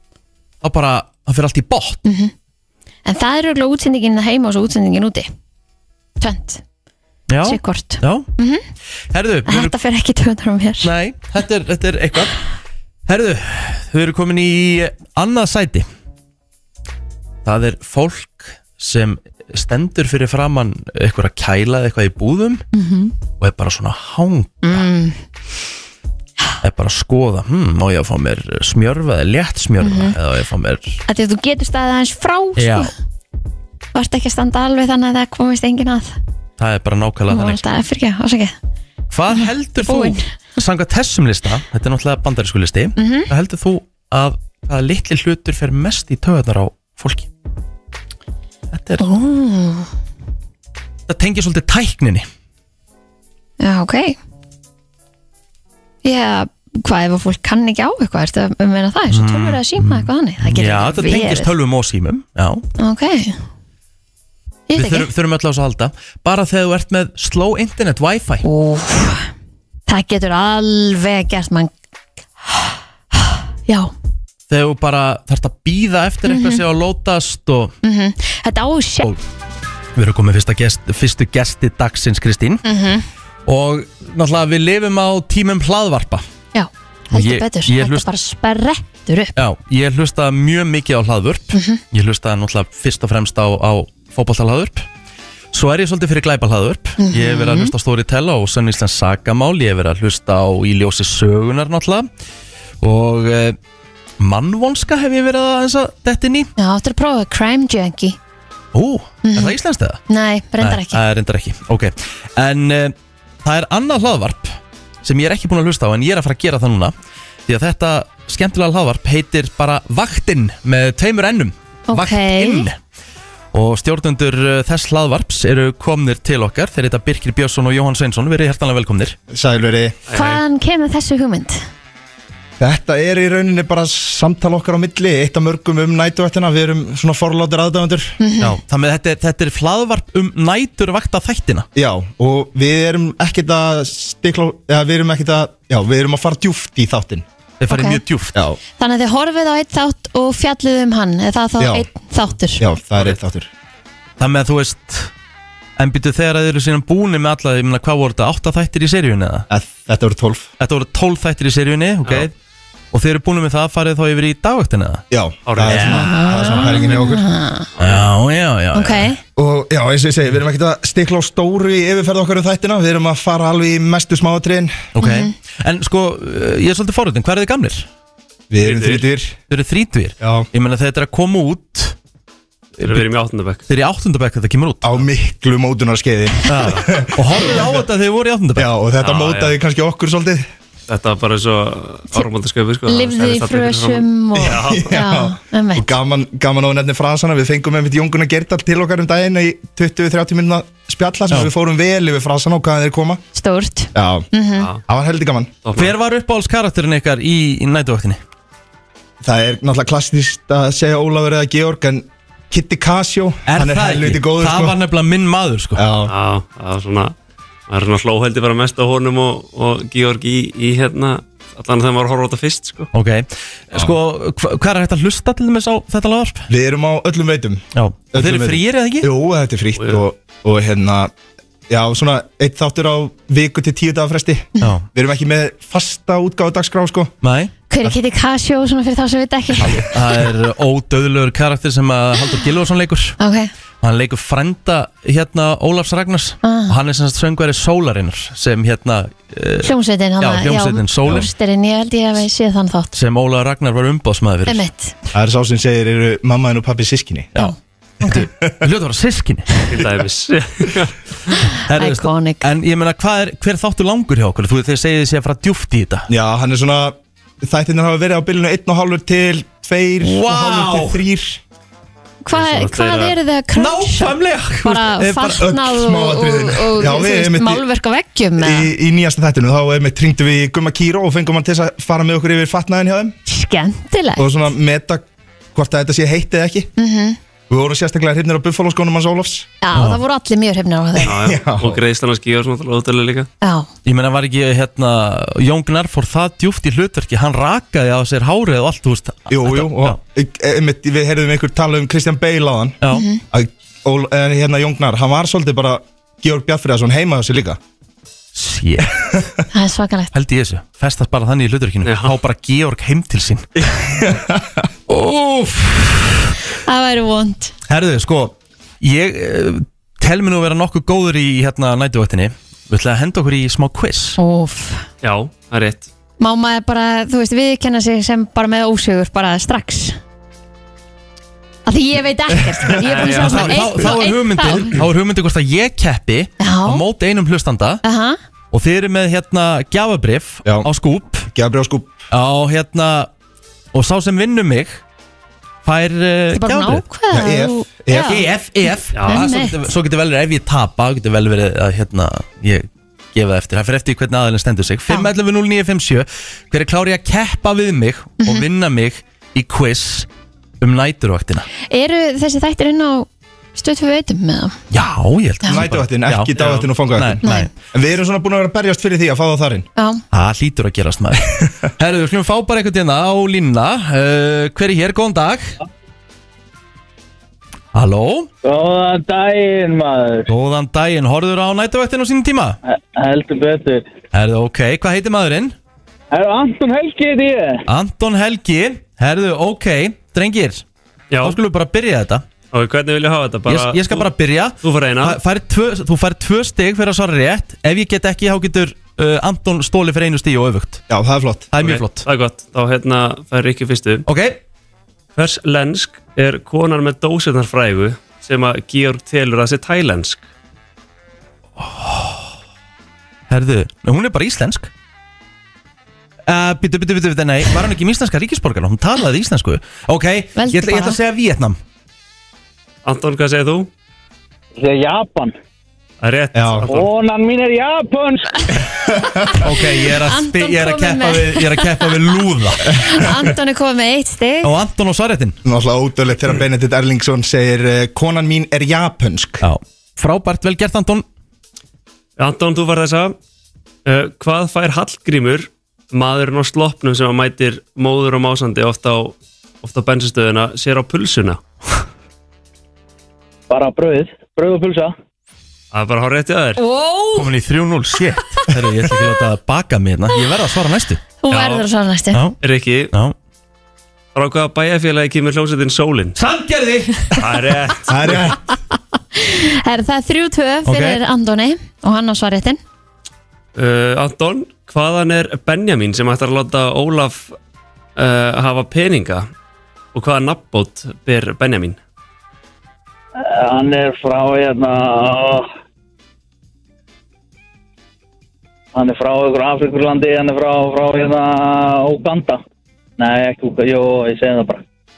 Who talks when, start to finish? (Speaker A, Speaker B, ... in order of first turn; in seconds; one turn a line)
Speaker A: 0.6-2.0
Speaker B: 2.0-2.3
Speaker B: 3.1-5.3
Speaker B: 6.2-6.6
Speaker A: 7.3-8.3
Speaker B: 7.5-8.6
Speaker A: 9.1-9.8
Speaker B: 9.5-10.9
Speaker A: 10.8-12.4
Speaker A: 13.1-15.9
Speaker A: 17.4-22.6
Speaker B: 22.7-23.1
Speaker A: 23.4-24.9
Speaker B: 24.6-25.2
Speaker A: 26.6-31.0
Speaker B: 29.8-30.2
Speaker B: 31.1-32.9
Speaker A: 32.6-32.9
Speaker B: 34.0-36.2
Speaker A: 36.6-37.6
Speaker B: 37.3-38.5
Speaker A: 39.1-47.3
Speaker B: 39.3-40.2
Speaker B: 43.0-43.3
Speaker A: 48.7-49.0
Speaker B: 49.0-49.9
Speaker A: 51.1-52.3
Speaker B: 53.6-54.2
Speaker B: 56.0-61.5
Speaker A: 59.1-62.6
Speaker B: 62.8-63.4
Speaker B: 64.7-65.1
Speaker A: 64.8-68.4
Speaker B: 68.4-69.3
Speaker B: 69.9-71.7
Speaker B: 72.4-73.9
Speaker A: 74.5-77.8
Speaker B: 76.3-76.6
Speaker B: 77.8-79.1
Speaker A: 80.0-82.6
Speaker B: 82.6-83.0
Speaker A: 83.5-86.2
Speaker B: 86.5-89.3
Speaker A: 87.1-88.1
Speaker A: 89.4-94.9
Speaker B: 91.5-91.8
Speaker A: 95.5-102.1
Speaker B: 97.0-97.7
Speaker A: 102.8-103.6
Speaker A: 104.2-106.5
Speaker B: 106.6-108.2
Speaker A: 108.7-110.0
Speaker B: 109.2-109.5
Speaker B: 110.1-111.0
Speaker A: 110.6-116.9
Speaker A: 117.5-122.8
Speaker B: 121.9-122.7
Speaker A: 123.5-129.2
Speaker C: 129.3-129.9
Speaker D: 130.1-130.4
Speaker B: 130.1-131.6
Speaker C: 132.6-138.2
Speaker B: 138.2-138.6
Speaker A: 138.4-141.7
Speaker C: 141.8-147.2
Speaker A: 147.6-148.4
Speaker B: 147.7-148.0
Speaker B: 148.8-152.6
Speaker C: 151.6-151.9
Speaker C: 152.6-153.5
Speaker A: 154.2-155.1
Speaker A: 155.8-159.5
Speaker C: 159.5-160.5
Speaker A: 160.6-162.3
Speaker A: 162.9-165.1
Speaker C: 165.1-167.3
Speaker D: 165.4-166.0
Speaker A: 165.6-166.3
Speaker B: 165.9-167.7
Speaker D: 167.8-168.1
Speaker A: 167.8-169.1
Speaker B: 168.7-169.2
Speaker C: 169.4-174.9
Speaker A: 174.9-177.9
Speaker B: 175.0-175.3
Speaker C: 178.5-179.4
Speaker D: 178.6-179.1
Speaker A: 179.5-182.0
Speaker C: 180.2-180.5
Speaker A: 182.8-183.1
Speaker D: 182.8-183.6
Speaker A: 183.7-185.0
Speaker C: 184.8-187.8
Speaker A: 186.5-188.7
Speaker C: 188.6-190.4
Speaker D: 189.0-189.6
Speaker D: 190.9-194.8
Speaker B: 192.9-195.9
Speaker C: 194.4-203.2
Speaker B: 203.3-204.7
Speaker C: 203.9-204.3
Speaker D: 204.6-204.8
Speaker C: 204.9-205.5
Speaker D: 205.6-205.9
Speaker A: 205.8-208.2
Speaker C: 209.2-214.8
Speaker A: 213.5-215.9
Speaker C: 215.8-216.1
Speaker D: 216.1-217.1
Speaker D: 217.7-222.9
Speaker A: 222.9-226.5
Speaker C: 226.5-231.1
Speaker A: 227.7-229.1
Speaker D: 229.8-230.0
Speaker C: 231.7-237.2
Speaker A: 237.2-237.5
Speaker B: 237.7-240.0
Speaker A: 239.9-243.2
Speaker B: 243.2-243.5
Speaker A: 243.8-251.3
Speaker B: 246.4-246.8
Speaker B: 249.6-252.9
Speaker A: 252.9-254.7
Speaker B: 254.5-254.9
Speaker C: 255.1-257.5
Speaker B: 257.4-258.3
Speaker A: 257.4-259.5
Speaker C: 258.2-258.6
Speaker D: 259.7-260.9
Speaker A: 261.7-266.1
Speaker B: 261.7-262.4
Speaker C: 266.1-271.4
Speaker A: 270.0-271.0
Speaker B: 272.2-278.7
Speaker D: 272.3-273.2
Speaker A: 273.6-275.6
Speaker C: 275.4-277.6
Speaker C: 278.4-283.1
Speaker B: 283.3-284.3
Speaker C: 284.2-286.7
Speaker B: 286.8-287.2
Speaker C: 287.5-289.5
Speaker B: 289.6-291.2
Speaker A: 289.7-290.0
Speaker C: 291.1-291.8
Speaker D: 291.1-293.3
Speaker B: 293.4-293.7
Speaker A: 293.9-300.0
Speaker C: 299.3-302.8
Speaker B: 302.9-303.2
Speaker C: 303.3-307.6
Speaker A: 308.3-308.9
Speaker B: 309.5-310.1
Speaker A: 310.1-313.5
Speaker D: 311.8-312.1
Speaker C: 314.0-314.4
Speaker A: 314.9-316.3
Speaker B: 316.6-317.5
Speaker A: 317.7-324.2
Speaker B: 324.2-324.9
Speaker D: 325.0-325.9
Speaker B: 326.2-330.0
Speaker B: 331.7-334.8
Speaker D: 332.9-333.7
Speaker A: 332.9-337.8
Speaker B: 336.4-336.8
Speaker B: 337.8-338.2
Speaker A: 338.5-341.3
Speaker C: 341.3-342.0
Speaker A: 342.1-343.1
Speaker A: 343.7-344.8
Speaker A: 345.6-346.8
Speaker B: 346.3-348.3
Speaker C: 347.1-348.2
Speaker A: 347.9-360.1
Speaker D: 348.9-349.3
Speaker B: 348.9-349.7
Speaker A: 360.6-361.5
Speaker B: 361.7-364.6
Speaker A: 364.7-366.4
Speaker C: 365.5-369.7
Speaker D: 366.4-366.7
Speaker A: 366.9-367.5
Speaker B: 367.2-367.5
Speaker B: 369.8-370.0
Speaker A: 370.1-375.5
Speaker A: 377.7-378.3
Speaker E: 378.4-380.3
Speaker A: 380.3-382.6
Speaker E: 382.6-383.9
Speaker A: 384.1-385.6
Speaker E: 386.1-387.6
Speaker A: 387.7-390.6
Speaker D: 391.1-391.4
Speaker A: 391.2-392.2
Speaker D: 392.5-394.1
Speaker A: 393.5-400.8
Speaker D: 394.6-395.2
Speaker C: 400.9-401.5
Speaker A: 401.5-402.1
Speaker D: 401.6-404.1
Speaker A: 404.1-404.4
Speaker D: 405.2-410.2
Speaker A: 411.6-412.3
Speaker A: 413.3-414.7
Speaker A: 416.3-421.6
Speaker B: 420.4-421.0
Speaker D: 422.9-423.7
Speaker E: 424.6-425.3
Speaker D: 426.0-426.9
Speaker C: 426.3-426.7
Speaker E: 426.7-428.4
Speaker C: 428.9-429.4
Speaker A: 429.4-432.7
Speaker B: 430.0-432.0
Speaker B: 432.6-434.6
Speaker A: 434.4-435.4
Speaker C: 435.4-439.4
Speaker A: 439.4-441.1
Speaker D: 442.2-443.2
Speaker D: 443.9-451.4
Speaker E: 453.5-454.9
Speaker D: 455.7-456.6
Speaker B: 456.6-457.3
Speaker A: 457.1-461.0
Speaker B: 458.2-458.9
Speaker B: 461.2-462.2
Speaker D: 461.3-461.6
Speaker D: 462.4-462.9
Speaker D: 464.1-466.2
Speaker A: 466.1-467.1
Speaker D: 467.2-468.2
Speaker C: 467.9-468.4
Speaker B: 469.1-472.6
Speaker A: 470.6-471.0
Speaker D: 473.6-477.4
Speaker D: 478.0-479.3
Speaker D: 479.9-481.8
Speaker E: 483.2-485.5
Speaker E: 488.7-492.4
Speaker E: 493.0-494.6